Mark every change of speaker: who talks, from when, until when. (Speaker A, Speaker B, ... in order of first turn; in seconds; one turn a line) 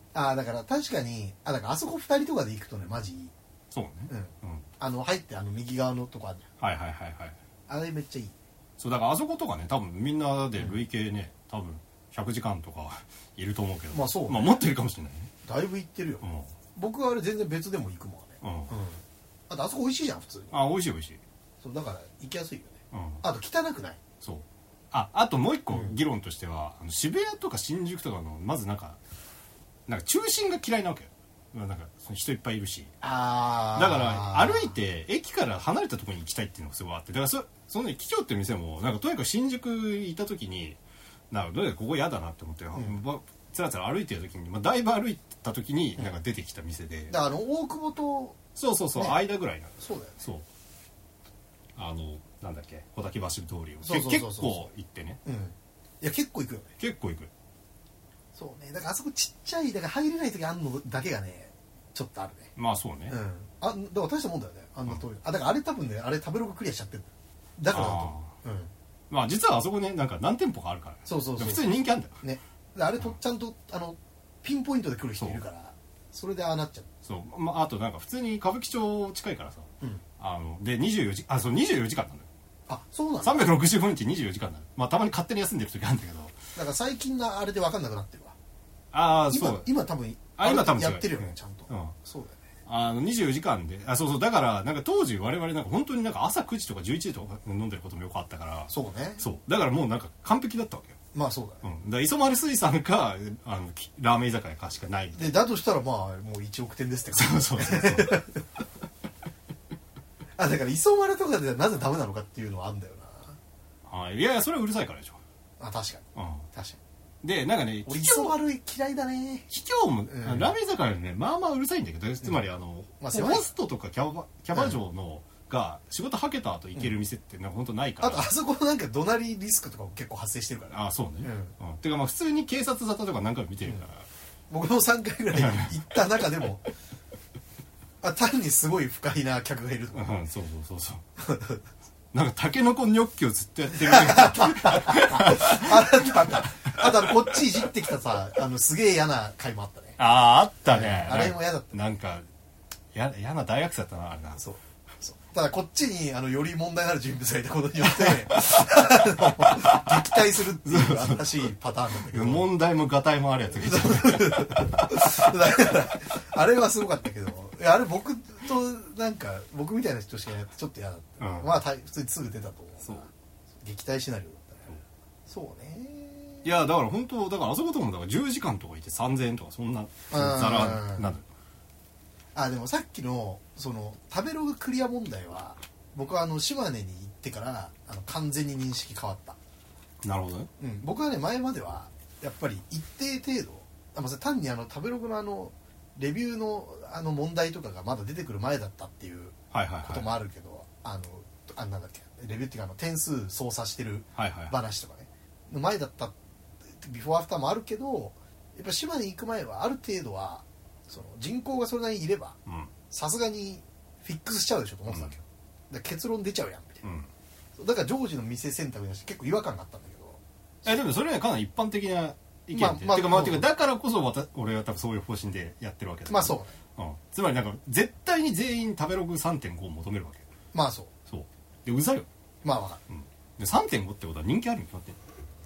Speaker A: 0.1-3.3
Speaker B: 3.7-4.7
Speaker A: 4.1-6.5
Speaker B: 6.6-7.4
Speaker A: 7.7-8.3
Speaker B: 8.8-15.3
Speaker A: 13.9-14.6
Speaker A: 15.4-20.6
Speaker B: 16.2-16.5
Speaker B: 18.4-18.7
Speaker B: 20.5-21.2
Speaker A: 21.6-24.0
Speaker B: 22.9-23.2
Speaker B: 24.2-29.0
Speaker B: 29.9-32.9
Speaker A: 33.0-34.8
Speaker B: 33.8-40.8
Speaker B: 41.3-47.1
Speaker A: 47.1-48.4
Speaker B: 48.6-50.5
Speaker A: 49.8-50.2
Speaker B: 51.8-55.2
Speaker A: 53.8-54.7
Speaker A: 55.2-56.7
Speaker B: 56.8-57.3
Speaker A: 58.4-62.5
Speaker B: 62.6-63.2
Speaker A: 63.1-68.7
Speaker B: 67.7-68.3
Speaker B: 69.1-72.2
Speaker A: 71.1-71.7
Speaker A: 72.2-76.9
Speaker B: 77.0-82.3
Speaker A: 82.7-83.5
Speaker B: 83.2-86.4
Speaker A: 86.6-88.4
Speaker B: 88.9-89.7
Speaker A: 89.3-92.4
Speaker B: 90.4-92.0
Speaker B: 92.7-101.0
Speaker A: 98.7-99.2
Speaker A: 101.1-101.7
Speaker B: 101.6-105.4
Speaker A: 105.2-108.4
Speaker B: 107.1-108.2
Speaker A: 110.4-113.4
Speaker B: 113.9-115.2
Speaker A: 115.6-116.8
Speaker B: 116.2-116.5
Speaker B: 117.2-118.4
Speaker A: 117.9-119.5
Speaker B: 119.5-128.3
Speaker A: 120.1-120.5
Speaker A: 123.0-123.5
Speaker A: 128.0-131.6
Speaker B: 130.7-134.1
Speaker A: 134.5-136.7
Speaker B: 135.3-135.7
Speaker A: 138.0-140.2
Speaker B: 139.9-141.0
Speaker A: 141.2-141.6
Speaker B: 142.1-147.3
Speaker A: 143.8-150.0
Speaker B: 150.0-152.2
Speaker A: 150.7-151.8
Speaker B: 152.9-154.4
Speaker A: 154.4-162.5
Speaker B: 157.8-161.5
Speaker B: 162.0-165.3
Speaker A: 163.6-173.1
Speaker B: 171.2-171.6
Speaker A: 173.6-174.8
Speaker A: 175.3-176.5
Speaker B: 176.4-181.2
Speaker A: 180.1-181.1
Speaker A: 182.3-189.4
Speaker B: 190.0-190.5
Speaker A: 190.6-206.1
Speaker B: 199.5-200.1
Speaker B: 204.2-204.6
Speaker A: 206.7-212.4
Speaker B: 212.5-212.7
Speaker A: 212.9-216.8
Speaker B: 214.9-215.2
Speaker B: 216.8-217.1
Speaker A: 217.6-220.8
Speaker B: 220.7-230.3
Speaker A: 222.5-223.5
Speaker A: 226.1-226.5
Speaker A: 230.5-230.9
Speaker B: 231.1-232.1
Speaker A: 232.4-232.8
Speaker B: 232.9-235.0